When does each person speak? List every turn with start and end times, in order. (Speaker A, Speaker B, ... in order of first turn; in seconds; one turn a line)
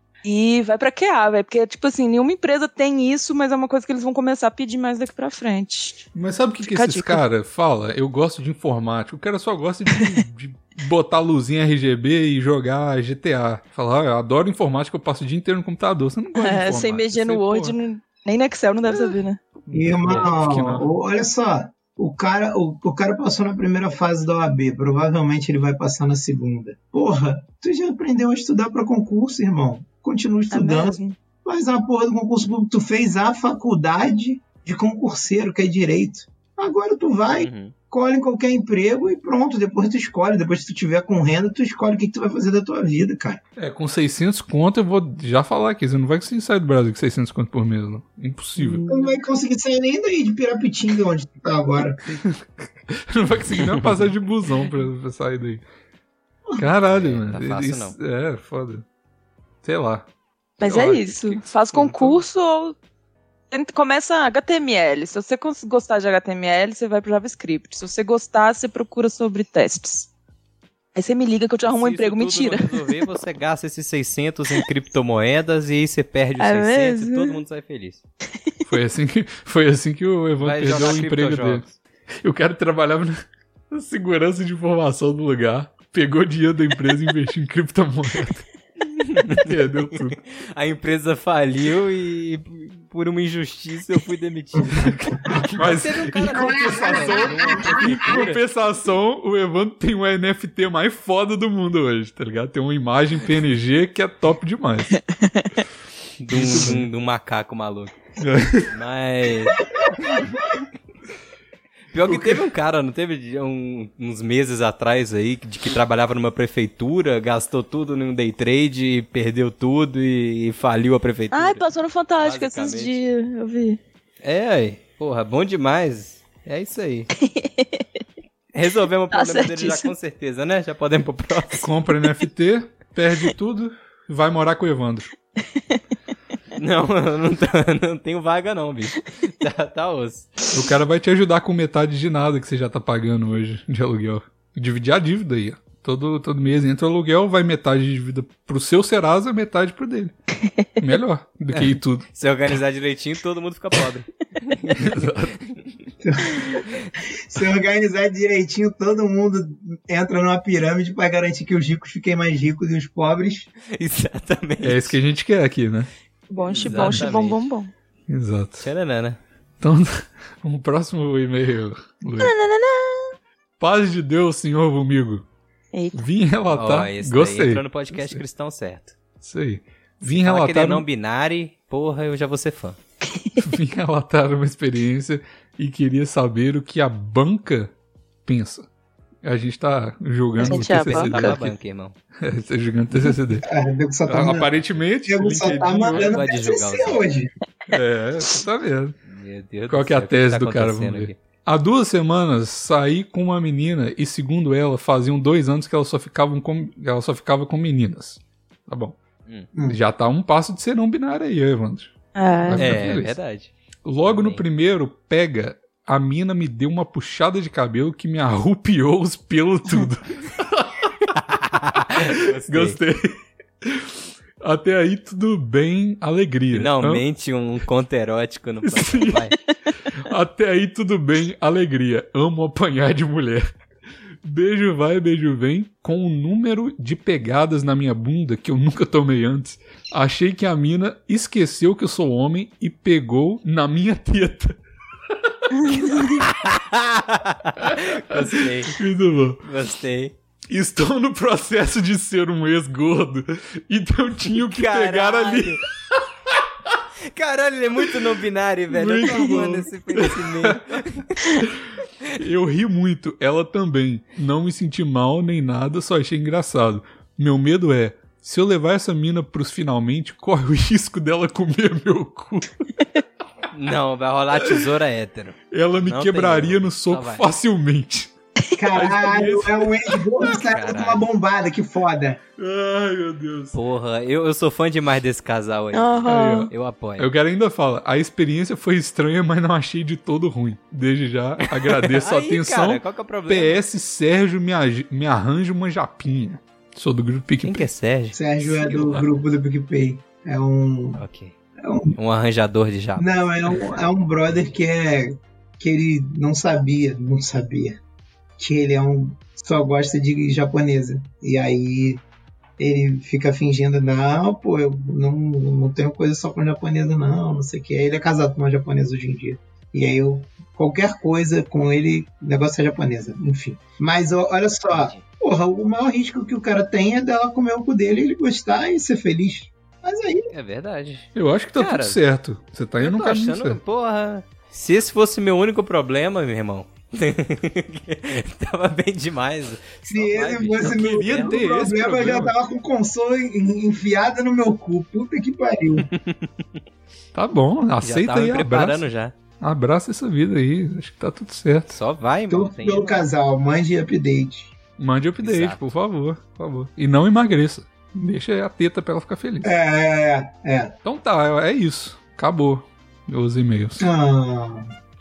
Speaker A: 0.2-6.1
Speaker B: 6.1-17.8
Speaker A: 6.6-7.2
Speaker A: 16.4-19.4
Speaker B: 19.7-20.9
Speaker C: 19.7-43.4
Speaker A: 30.5-31.2
Speaker D: 37.3-37.7
Speaker B: 43.6-48.8
Speaker A: 48.6-49.2
Speaker C: 48.9-52.0
Speaker B: 52.1-55.6
Speaker D: 53.6-54.0
Speaker B: 56.6-58.8
Speaker D: 56.9-58.0
Speaker B: 59.6-60.1
Speaker A: 60.6-62.8
Speaker B: 60.6-62.2
Speaker A: 63.5-70.1
Speaker A: 71.0-73.0
Speaker D: 71.6-78.0
Speaker A: 76.4-77.4
Speaker B: 78.6-81.7
Speaker D: 80.4-81.7
Speaker B: 82.2-88.5
Speaker D: 89.0-98.4
Speaker B: 89.3-90.2
Speaker B: 95.3-105.0
Speaker C: 96.3-98.3
Speaker D: 106.2-107.9
Speaker B: 106.3-106.9
Speaker B: 108.2-108.7
Speaker D: 108.7-109.7
Speaker D: 111.9-121.7
Speaker B: 112.1-112.4
Speaker A: 121.3-123.8
Speaker D: 122.2-123.0
Speaker D: 124.2-127.1
Speaker A: 127.2-127.9
Speaker D: 128.5-131.7
Speaker A: 129.1-129.9
Speaker B: 131.6-135.1
Speaker D: 136.6-140.3
Speaker B: 140.5-150.1
Speaker B: 150.8-152.1
Speaker D: 151.5-155.4
Speaker B: 154.7-155.4
Speaker C: 156.0-156.7
Speaker C: 157.2-163.5
Speaker D: 163.7-165.0
Speaker B: 164.6-165.9
Speaker A: 166.3-167.7
Speaker D: 166.4-167.4
Speaker B: 166.7-167.2
Speaker B: 168.1-168.7
Speaker D: 168.6-169.2
Speaker B: 169.6-172.3
Speaker A: 172.2-173.1
Speaker B: 173.6-175.2
Speaker A: 175.7-176.1
Speaker B: 175.9-178.2
Speaker D: 176.5-178.9
Speaker B: 179.2-180.9
Speaker D: 180.0-182.8
Speaker A: 183.1-183.4
Speaker B: 183.4-187.7
Speaker B: 188.2-188.7
Speaker B: 189.2-191.6
Speaker A: 190.4-191.4
Speaker D: 190.4-191.9
Speaker B: 192.2-193.5
Speaker C: 193.4-194.5
Speaker B: 194.1-196.2
Speaker C: 195.1-197.3
Speaker D: 195.9-197.0
Speaker B: 197.7-199.0
Speaker D: 199.1-201.2
Speaker B: 199.7-209.0
Speaker B: 209.7-213.2
Speaker A: 212.2-212.9
Speaker D: 212.6-213.5
Speaker B: 213.8-220.9
Speaker D: 214.0-214.4
Speaker D: 221.0-222.8
Speaker B: 221.9-227.0
Speaker D: 226.5-229.3
Speaker B: 228.6-229.3
Speaker B: 229.9-233.5
Speaker B: 234.2-244.6
Speaker B: 245.3-246.1
Speaker A: 245.6-246.2
Speaker D: 246.1-248.8
Speaker B: 247.6-249.4
Speaker D: 249.4-250.1
Speaker B: 250.5-256.0
Speaker D: 254.3-255.6
Speaker D: 257.1-261.4
Speaker B: 258.7-260.8
Speaker B: 261.4-272.7
Speaker D: 273.5-277.3
Speaker B: 275.5-278.1
Speaker C: 278.6-282.2
Speaker B: 278.7-279.8
Speaker D: 280.2-281.1
Speaker B: 282.4-283.6
Speaker D: 283.6-287.1
Speaker A: 285.7-286.5
Speaker B: 286.1-297.7
Speaker D: 291.4-293.6
Speaker D: 297.4-299.1
Speaker C: 298.1-301.0
Speaker D: 301.0-301.3
Speaker C: 301.6-302.0
Speaker D: 301.9-303.8
Speaker C: 303.0-307.8
Speaker C: 308.4-312.0
Speaker C: 312.6-330.3
Speaker D: 324.7-325.0
Speaker D: 330.3-332.0
Speaker B: 331.1-333.6
Speaker D: 332.8-341.3
Speaker C: 339.9-345.9
Speaker B: 340.6-342.3
Speaker D: 345.9-346.4
Speaker B: 347.1-348.8
Speaker D: 347.8-349.1
Speaker B: 349.4-351.8
Speaker D: 351.7-353.1
Speaker C: 352.3-354.5
Speaker B: 354.8-359.5
Speaker D: 355.2-355.6
Speaker C: 359.4-360.7
Speaker B: 360.8-363.9
Speaker C: 363.8-364.7